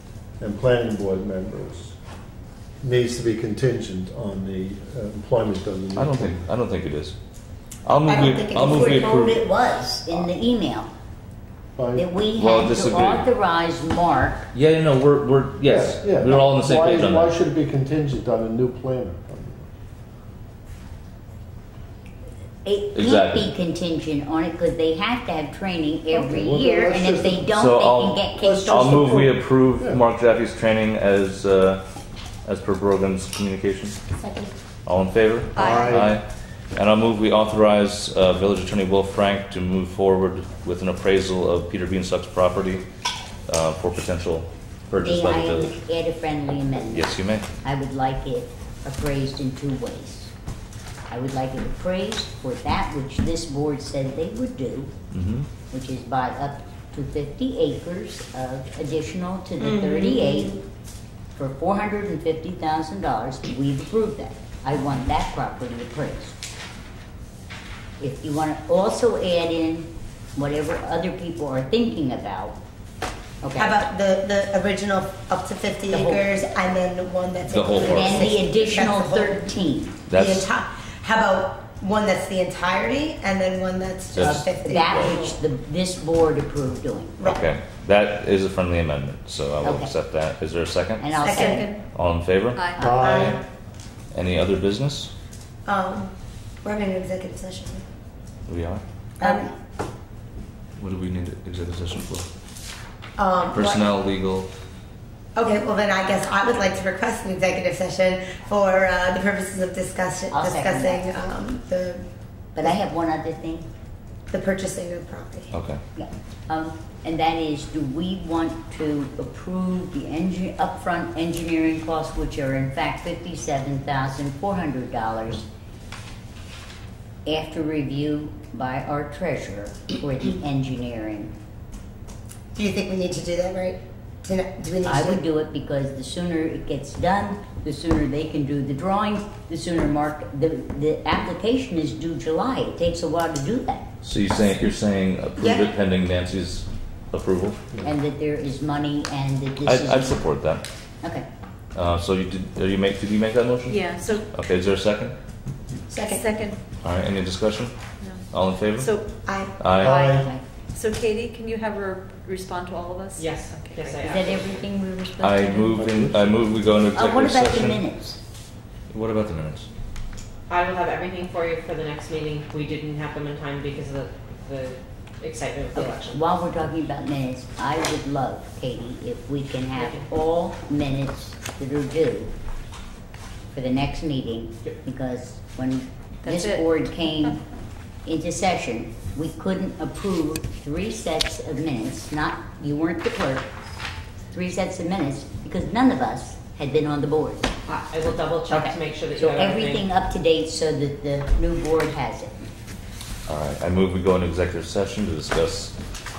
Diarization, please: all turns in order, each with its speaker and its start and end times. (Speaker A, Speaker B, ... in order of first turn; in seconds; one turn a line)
Speaker A: 0.4-2.0
Speaker A: 2.8-6.4
Speaker B: 6.0-7.2
Speaker B: 7.8-9.4
Speaker C: 8.0-9.2
Speaker D: 8.5-10.9
Speaker A: 11.8-12.1
Speaker D: 12.0-14.5
Speaker B: 12.3-13.3
Speaker B: 14.5-17.3
Speaker A: 15.7-19.7
Speaker D: 22.6-28.9
Speaker B: 22.9-23.5
Speaker A: 26.1-27.5
Speaker B: 27.5-31.8
Speaker A: 28.4-30.0
Speaker B: 32.5-34.0
Speaker B: 34.9-42.8
Speaker A: 35.6-36.2
Speaker E: 35.6-35.9
Speaker B: 43.5-45.8
Speaker D: 45.0-50.3
Speaker B: 46.9-47.5
Speaker D: 51.1-54.9
Speaker B: 55.1-55.5
Speaker D: 55.7-60.6
Speaker C: 59.6-60.6
Speaker D: 61.3-66.3
Speaker D: 68.0-72.5
Speaker D: 73.4-73.8
Speaker C: 73.5-79.5
Speaker D: 75.9-76.3
Speaker B: 77.5-78.3
Speaker D: 77.8-80.0
Speaker B: 80.1-80.5
Speaker C: 80.1-85.3
Speaker B: 84.1-85.1
Speaker D: 84.2-87.2
Speaker B: 87.2-91.2
Speaker D: 89.6-89.9
Speaker D: 91.0-91.7
Speaker C: 91.2-91.8
Speaker E: 91.3-91.7
Speaker B: 91.9-93.4
Speaker E: 92.5-93.0
Speaker D: 92.8-93.2
Speaker A: 92.8-93.4
Speaker C: 92.9-93.4
Speaker B: 94.1-95.1
Speaker C: 95.7-96.1
Speaker C: 96.6-97.8
Speaker B: 98.5-98.8
Speaker C: 99.2-99.5
Speaker B: 100.8-102.3
Speaker C: 103.2-103.9
Speaker B: 103.5-104.5
Speaker C: 105.3-112.0
Speaker D: 110.3-111.1
Speaker D: 112.5-113.7
Speaker C: 114.3-115.5
Speaker B: 115.5-115.8
Speaker D: 116.0-125.5
Speaker D: 127.2-131.3
Speaker C: 132.5-135.2
Speaker D: 134.8-143.9
Speaker B: 144.0-147.6
Speaker C: 145.4-145.7
Speaker D: 147.8-150.2
Speaker B: 149.6-150.6
Speaker B: 151.7-155.2
Speaker E: 153.7-154.3
Speaker C: 155.9-156.2
Speaker E: 156.0-156.6
Speaker B: 156.8-157.8
Speaker B: 158.3-159.0
Speaker E: 158.8-159.1
Speaker C: 159.2-159.6
Speaker B: 159.6-160.0
Speaker A: 159.8-160.3
Speaker E: 159.8-165.8
Speaker F: 163.2-164.7
Speaker D: 164.1-164.7
Speaker B: 165.2-167.8
Speaker A: 165.7-166.3
Speaker D: 166.9-168.2
Speaker B: 168.9-169.7
Speaker F: 170.5-176.2
Speaker D: 175.8-182.3
Speaker F: 179.8-180.0
Speaker D: 183.5-187.4
Speaker E: 186.2-186.7
Speaker D: 188.0-193.5
Speaker D: 194.3-197.5
Speaker F: 197.7-199.8
Speaker D: 198.5-202.5
Speaker B: 203.3-205.8